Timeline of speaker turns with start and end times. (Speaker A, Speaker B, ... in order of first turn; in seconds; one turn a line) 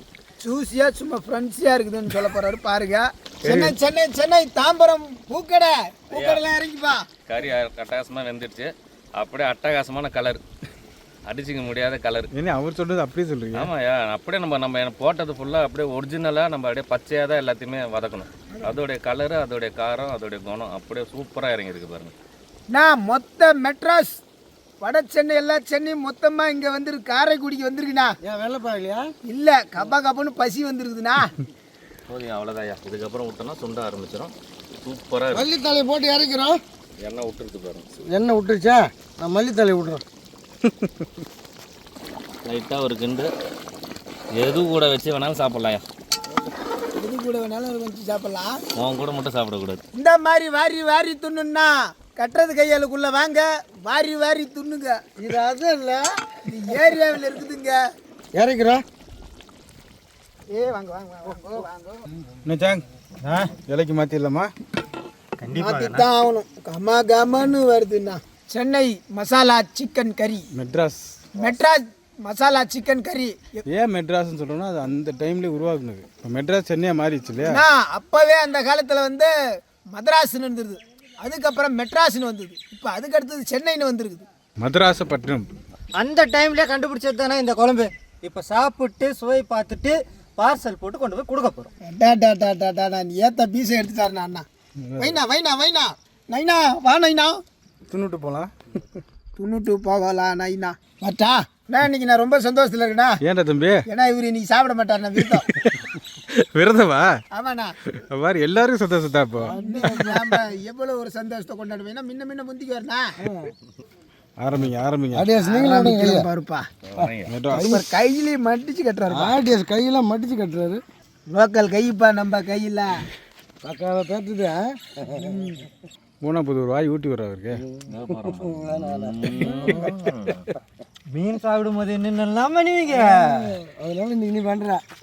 Speaker A: 0.4-7.0
Speaker B: 3.4-3.8
Speaker C: 6.1-6.4
Speaker C: 7.3-10.4
Speaker C: 11.3-12.3
Speaker B: 12.3-13.7
Speaker C: 13.5-22.1
Speaker A: 22.7-24.2
Speaker A: 24.8-28.1
Speaker D: 28.2-29.1
Speaker A: 29.3-31.3
Speaker C: 32.1-34.3
Speaker C: 34.8-35.5
Speaker D: 35.3-36.6
Speaker C: 37.0-37.9
Speaker D: 38.1-40.0
Speaker B: 40.7-41.1
Speaker C: 42.5-43.3
Speaker C: 44.4-45.8
Speaker A: 47.0-48.6
Speaker C: 48.8-49.8
Speaker A: 50.0-55.0
Speaker D: 55.2-56.0
Speaker A: 56.5-57.8
Speaker D: 58.4-58.8
Speaker A: 60.5-62.0
Speaker B: 62.5-62.9
Speaker E: 63.2-63.5
Speaker B: 63.7-64.5
Speaker E: 65.4-66.1
Speaker A: 65.5-70.5
Speaker B: 70.5-71.2
Speaker A: 71.4-73.6
Speaker B: 73.7-77.6
Speaker A: 77.5-79.3
Speaker A: 79.9-84.3
Speaker B: 84.6-85.5
Speaker E: 86.0-91.7
Speaker A: 91.9-94.5
Speaker B: 94.8-95.2
Speaker A: 95.0-97.4
Speaker B: 97.9-98.5
Speaker A: 99.4-103.2
Speaker B: 103.2-103.8
Speaker A: 103.9-105.5
Speaker B: 105.3-107.2
Speaker A: 107.3-107.8
Speaker B: 107.9-109.6
Speaker D: 109.4-110.2
Speaker A: 109.6-113.1
Speaker D: 113.2-113.5
Speaker B: 114.4-115.3
Speaker D: 115.1-116.3
Speaker A: 115.4-116.7
Speaker C: 116.9-117.3
Speaker D: 117.0-117.8
Speaker B: 117.3-117.7
Speaker A: 117.6-119.4
Speaker D: 119.1-120.8
Speaker A: 121.3-123.0
Speaker D: 123.6-125.3
Speaker A: 125.2-125.6
Speaker B: 126.2-127.6
Speaker D: 127.6-129.9
Speaker C: 127.9-130.5
Speaker E: 131.1-133.6
Speaker D: 132.9-134.8